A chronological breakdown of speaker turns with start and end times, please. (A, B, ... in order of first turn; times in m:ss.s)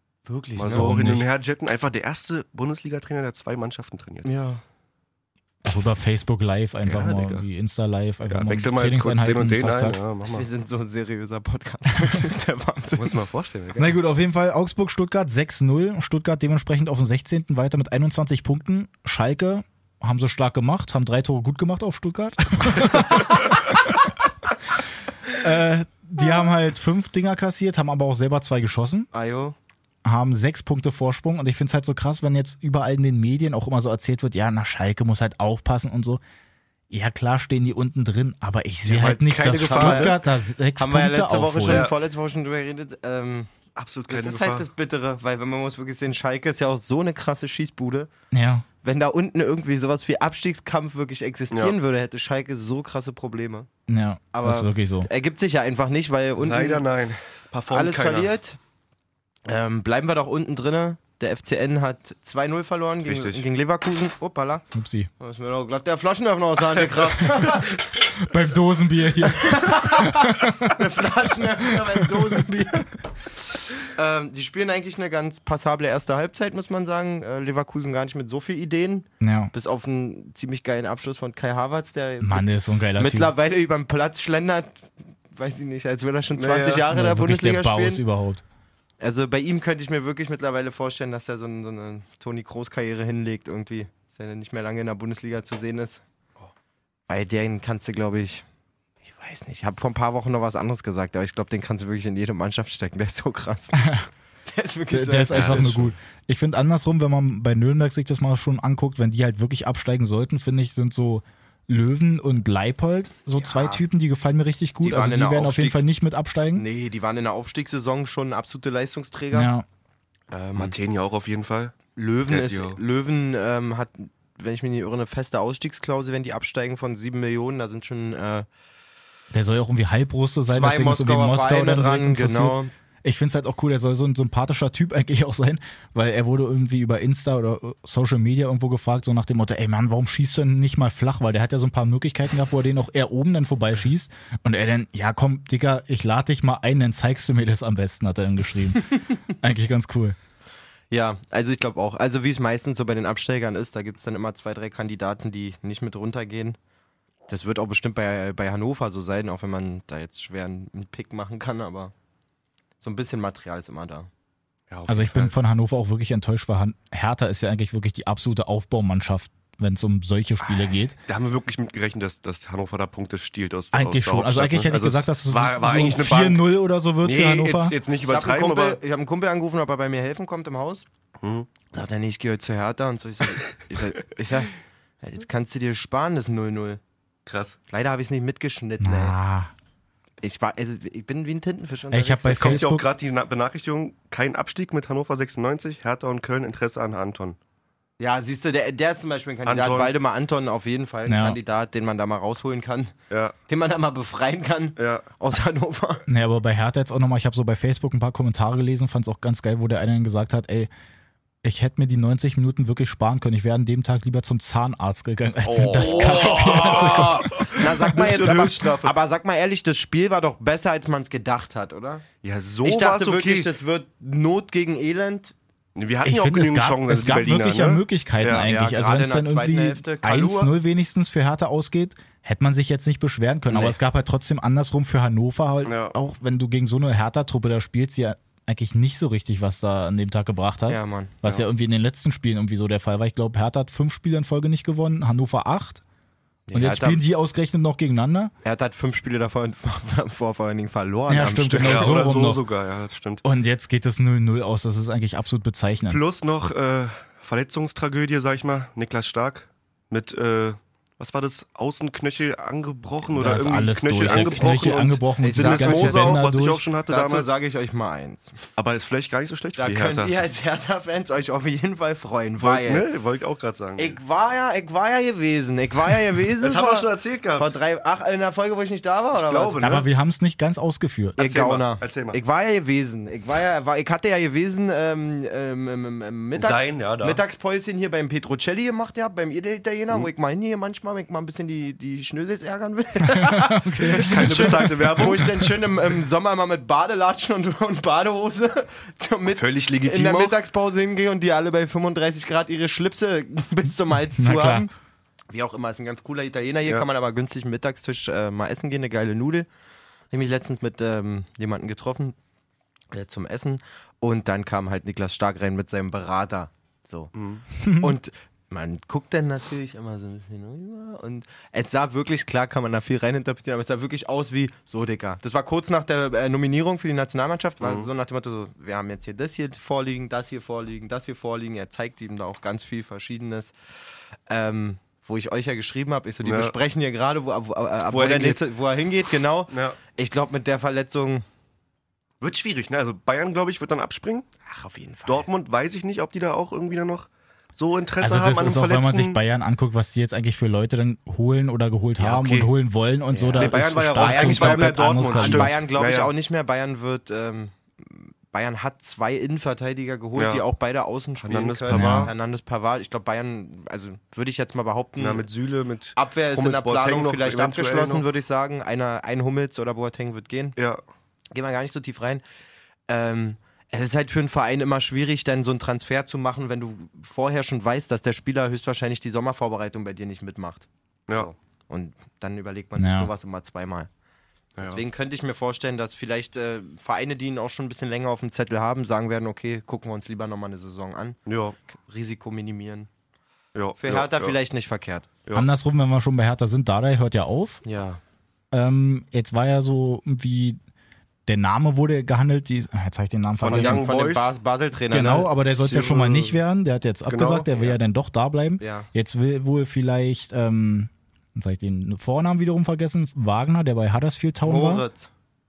0:00.2-0:01.0 A
0:00.6-0:04.3 B
0:00.7-0:01.2 C
0:04.2-0:04.6 A
0:05.6-0:10.0 C
0:06.8-0:07.4 B
0:08.2-0:10.4 B
0:10.3-0:13.2 A
0:13.0-0:14.0 B
0:13.8-0:24.1 C
0:25.3-0:29.1 C
0:29.1-0:29.5 A
0:30.0-0:36.2 C
0:36.9-0:41.9 C
0:38.8-0:40.2 B
0:39.5-0:40.2 A
0:40.8-0:43.5 A
0:41.7-0:41.9 B
0:43.8-0:44.7 B
0:44.1-0:48.1 A
0:48.3-0:48.6 C
0:48.8-0:53.7 A
0:53.9-0:55.1 C
0:54.3-0:56.8 A
0:56.4-0:58.3 B
0:57.7-0:58.6 A
0:59.5-1:04.6 A
1:03.0-1:03.4 B
1:04.7-1:05.1 C
1:05.2-1:07.7 A
1:08.1-1:10.8 C
1:09.3-1:13.0 A
1:13.8-1:22.4 A
1:19.2-1:19.5 C
1:22.2-1:23.3 C
1:23.0-1:28.0 A
1:26.4-1:26.8 B
1:26.9-1:28.4 C
1:29.0-1:36.0 A
1:37.1-1:38.4 A
1:39.1-1:45.9 A
1:43.8-1:44.0 C
1:44.9-1:56.6 C
1:45.3-1:45.9 B
1:53.3-1:53.8 A
1:54.8-1:55.8 A
1:56.6-1:59.5 A
1:59.3-1:59.6 C
2:00.3-2:00.7 A
2:00.6-2:01.8 B
2:02.0-2:08.5 A
2:02.3-2:02.8 B
2:09.3-2:30.2 C
2:10.5-2:12.7 A
2:30.9-2:36.6 A
2:37.3-2:41.9 A
2:42.8-2:44.1 A
2:44.7-2:45.3 B
2:44.9-2:51.0 C
2:51.1-2:56.4 B
2:53.7-2:57.8 C
2:57.0-2:58.8 B
2:58.1-3:00.8 A
3:01.2-3:01.5 B
3:01.7-3:06.8 A
3:07.2-3:07.6 B
3:07.7-3:09.2 A
3:08.8-3:09.5 C
3:10.2-3:12.7 A
3:11.9-3:12.8 C
3:12.4-3:17.4 B
3:18.0-3:22.9 A
3:19.4-3:19.9 B
3:21.0-3:21.4 C
3:23.1-3:23.3 B
3:23.5-3:26.0 A
3:24.8-3:25.0 B
3:26.1-3:30.7 C
3:31.4-3:38.4 C
3:35.4-3:38.9 B
3:35.8-3:42.0 A
3:42.2-3:43.5 B
3:42.6-3:45.3 A
3:45.7-3:48.5 B
3:46.0-4:05.8 C
3:48.4-3:50.5 A
3:53.5-3:53.8 A
3:55.6-3:55.9 B
4:00.7-4:01.1 A
4:06.5-4:07.0 A
4:06.5-4:08.3 C
4:08.4-4:12.0 A
4:11.1-4:12.4 C
4:11.6-4:13.2 B
4:13.2-4:16.0 C
4:15.9-4:27.3 B
4:23.1-4:26.6 C
4:24.1-4:24.5 A
4:25.2-4:26.2 A
4:26.9-4:28.4 A
4:28.6-4:30.1 B
4:29.6-4:32.9 A
4:32.4-4:34.0 B
4:33.8-4:39.8 A
4:36.4-4:37.5 B
4:39.1-4:39.8 B
4:39.6-4:41.2 C
4:41.2-4:42.2 B
4:41.2-5:04.7 A
4:46.3-4:47.2 B
4:53.1-4:55.5 C
4:53.9-4:55.4 B
4:59.3-5:00.3 B
5:04.2-5:04.7 C
5:05.3-5:09.5 A
5:10.1-5:12.2 A
5:12.9-5:33.5 A
5:17.1-5:17.4 B
5:17.6-5:17.9 C
5:27.6-5:27.9 B
5:34.3-5:41.2 A
5:36.2-5:36.5 B
5:37.9-5:38.4 B
5:39.5-5:39.8 B
5:42.2-5:44.2 B
5:44.5-5:45.3 A
5:45.1-5:49.2 B
5:48.0-5:55.6 C
5:52.0-5:52.5 B
5:53.1-6:05.2 A
5:53.3-5:56.1 B
6:00.1-6:00.4 B
6:01.2-6:02.1 B
6:01.7-6:02.1 C
6:05.0-6:08.0 B
6:06.0-6:10.6 A
6:11.3-6:12.2 A
6:12.9-6:23.9 A
6:22.8-6:23.1 C
6:24.6-6:31.2 A
6:31.2-6:31.6 B
6:31.9-6:32.9 A
6:33.5-6:34.3 B
6:33.8-6:35.1 A
6:35.3-6:37.6 C
6:37.6-6:38.0 A
6:38.5-6:40.6 C
6:41.3-6:43.9 C
6:43.4-6:44.3 B
6:43.5-6:45.3 A
6:44.9-6:54.8 C
6:45.5-6:46.3 B
6:47.1-6:47.5 B
6:48.6-6:48.9 A
6:54.4-6:55.1 A